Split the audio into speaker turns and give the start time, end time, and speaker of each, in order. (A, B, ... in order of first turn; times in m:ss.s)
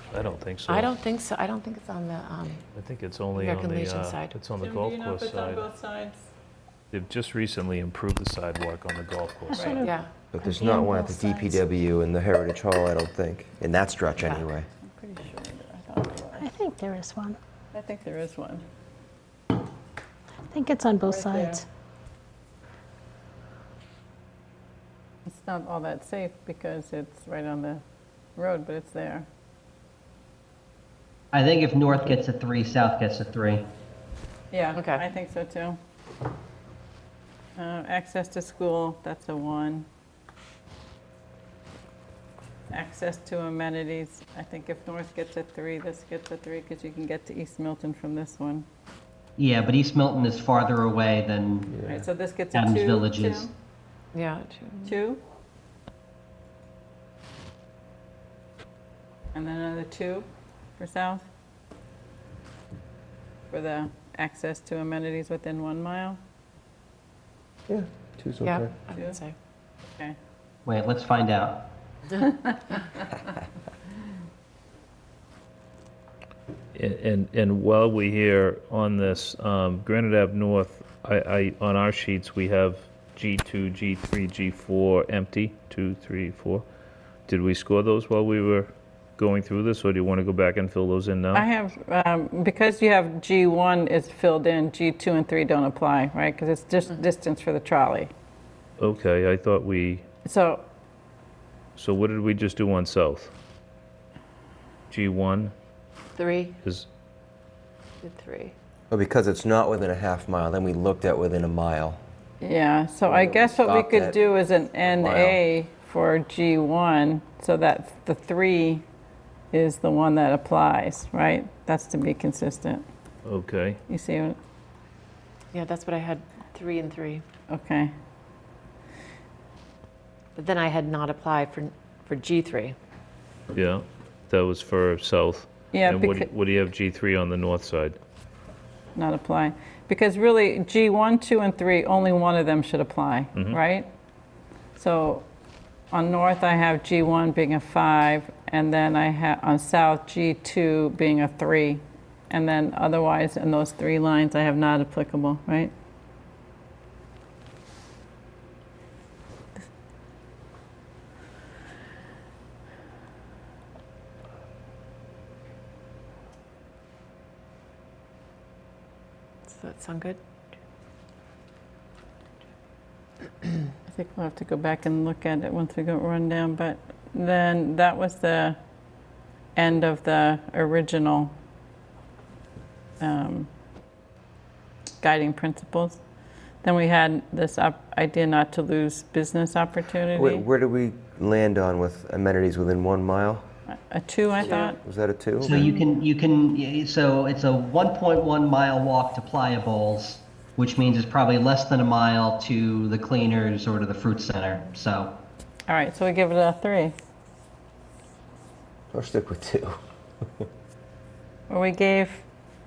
0:00.1-0:00.9 A
0:00.7-0:02.6 B
0:02.8-0:05.7 A
0:03.3-0:04.4 B
0:04.6-0:06.2 C
0:06.9-0:09.7 A
0:09.5-0:11.6 D
0:09.5-0:09.9 C
0:09.8-0:10.1 B
0:10.3-0:14.7 E
0:14.9-0:16.5 C
0:16.4-0:17.4 D
0:17.7-0:18.6 C
0:20.5-0:21.6 D
0:21.0-0:21.6 C
0:25.3-0:27.8 C
0:28.4-0:29.2 C
0:31.3-0:33.7 F
0:34.5-0:35.8 C
0:34.8-0:35.0 B
0:37.6-0:39.9 C
0:42.7-0:48.7 C
0:49.4-0:51.8 F
0:51.9-0:53.5 C
0:52.5-0:53.5 F
0:54.1-0:55.0 B
0:54.8-0:55.2 C
0:59.3-1:00.3 C
1:00.8-1:01.2 C
1:03.5-1:06.2 C
1:07.7-1:08.7 E
1:08.4-1:09.3 B
1:08.9-1:09.2 C
1:10.6-1:11.7 F
1:16.7-1:26.7 A
1:27.3-1:31.5 A
1:31.3-1:38.1 C
1:38.8-1:40.0 A
1:40.2-1:40.6 C
1:41.8-1:43.3 A
1:44.9-1:45.5 A
1:46.2-1:46.6 B
1:48.0-1:48.5 B
1:48.9-1:52.0 E
1:52.4-1:58.8 C
1:53.1-1:54.2 E
1:54.8-1:55.4 E
1:59.5-2:02.8 C
2:03.2-2:03.8 A
2:03.9-2:04.4 C
2:05.5-2:07.2 B
2:07.5-2:07.9 C
2:10.3-2:12.8 B
2:13.5-2:18.0 A
2:15.7-2:16.3 C
2:19.0-2:23.9 C
2:24.8-2:25.2 C
2:25.9-2:35.7 C
2:49.5-2:50.2 B
2:53.9-2:58.6 C
2:59.6-3:01.3 C
3:03.0-3:03.5 C
3:05.0-3:06.0 C
3:06.6-3:10.4 C
3:10.1-3:13.5 E
3:13.7-3:14.8 C
3:14.4-3:15.7 E
3:15.4-3:25.2 F
3:25.7-3:27.0 C
3:28.9-3:29.8 E
3:31.5-3:32.2 C